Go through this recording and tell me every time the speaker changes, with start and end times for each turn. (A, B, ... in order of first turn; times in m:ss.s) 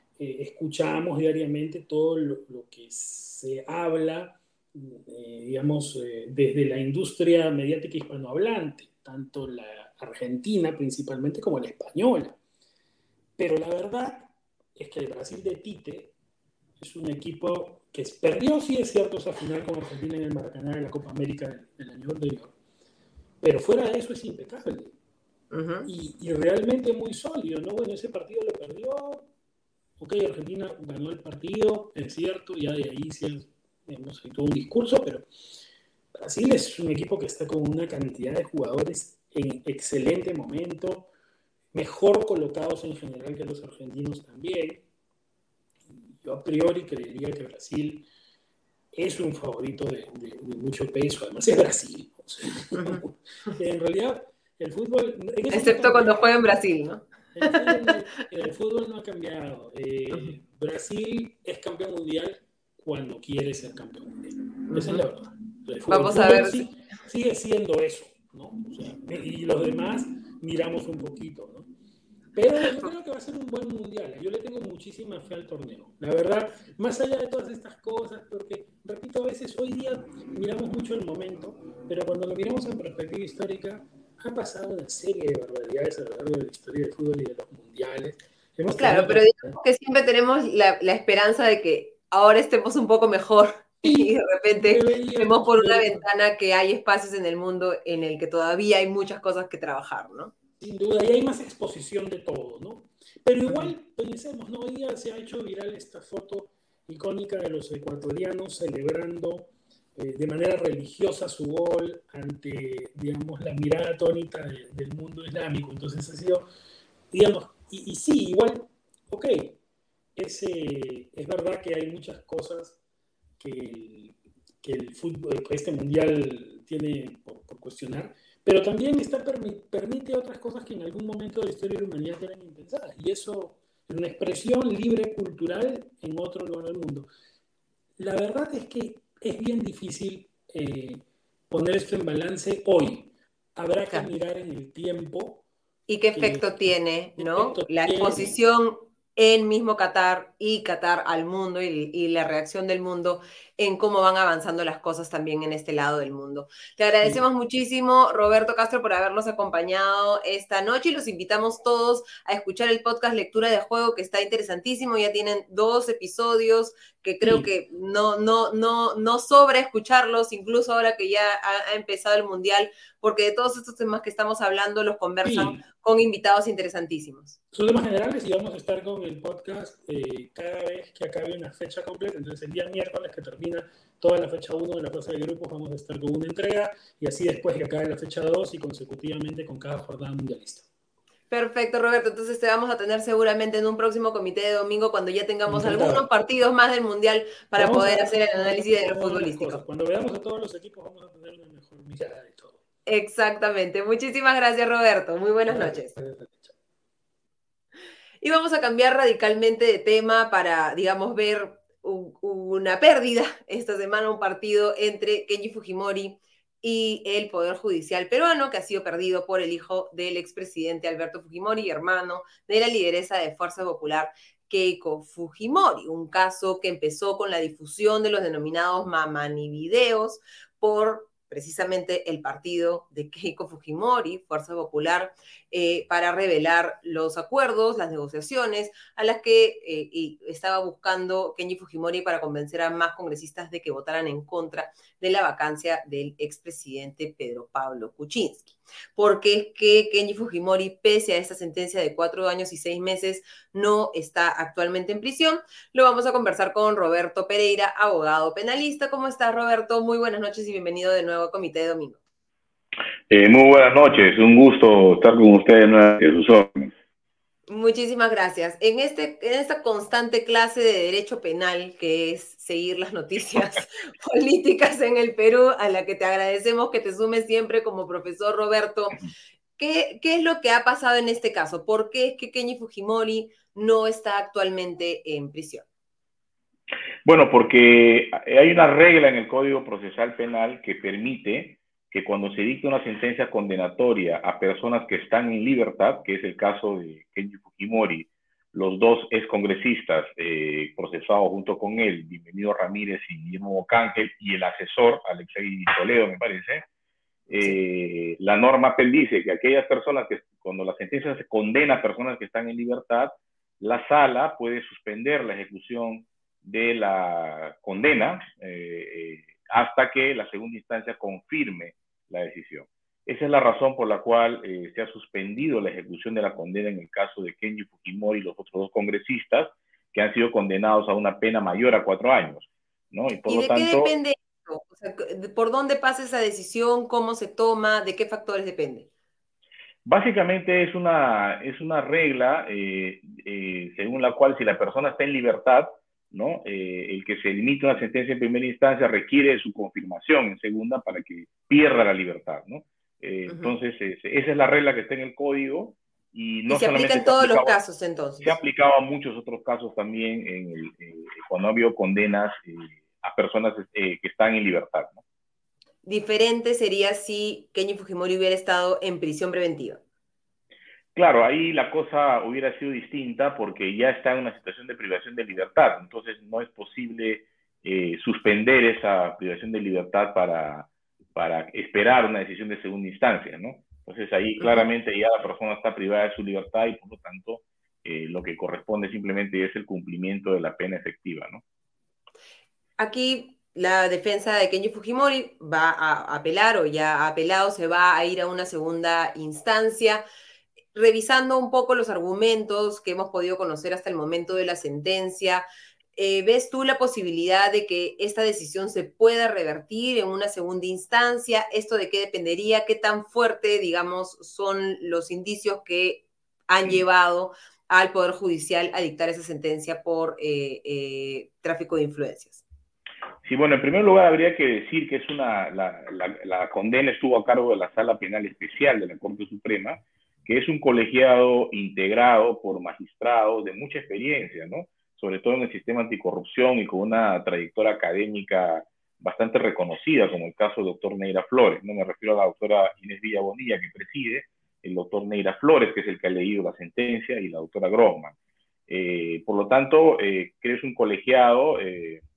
0:00.2-0:12.4 A
0:13.4-0:16.1 A
0:16.8-0:22.6 A
0:23.4-0:25.0 A
0:25.5-0:25.9 B
0:25.8-0:29.3 A
0:30.0-0:35.4 A
0:36.2-0:41.1 A
0:41.7-0:44.8 A
0:46.2-0:48.1 A
0:48.9-0:56.6 A
0:52.8-0:53.0 B
0:55.5-0:57.9 B
0:57.3-1:11.7 A
1:04.7-1:05.0 B
1:05.9-1:06.6 B
1:12.4-1:29.6 A
1:28.8-1:40.3 B
1:33.8-1:36.0 A
1:40.6-1:56.5 A
1:57.1-1:59.6 A
2:00.2-2:02.8 A
2:03.4-2:17.1 A
2:18.0-2:25.4 A
2:25.9-2:57.4 B
2:26.2-2:26.6 A
2:27.2-2:28.4 A
2:47.2-2:47.5 A
2:55.2-2:55.6 A
2:57.5-3:10.7 A
3:11.3-3:19.6 B
3:15.5-3:16.1 A
3:17.6-3:22.6 A
3:22.9-3:25.9 B
3:25.5-3:26.6 A
3:28.2-4:22.0 B
4:23.1-4:26.7 C
4:27.5-4:39.0 B
4:39.6-4:45.6 B
4:47.1-5:06.6 C
5:07.3-5:33.9 C
5:33.3-5:38.9 B
5:39.8-5:57.6 C
5:56.5-5:58.4 B
5:58.2-6:05.0 C
6:05.8-6:09.8 B
6:11.0-6:31.4 C
6:24.4-6:24.6 B
6:32.8-6:40.0 B
6:40.7-6:45.4 B
6:46.0-7:02.4 B
7:03.2-7:28.1 C
7:28.7-7:32.0 C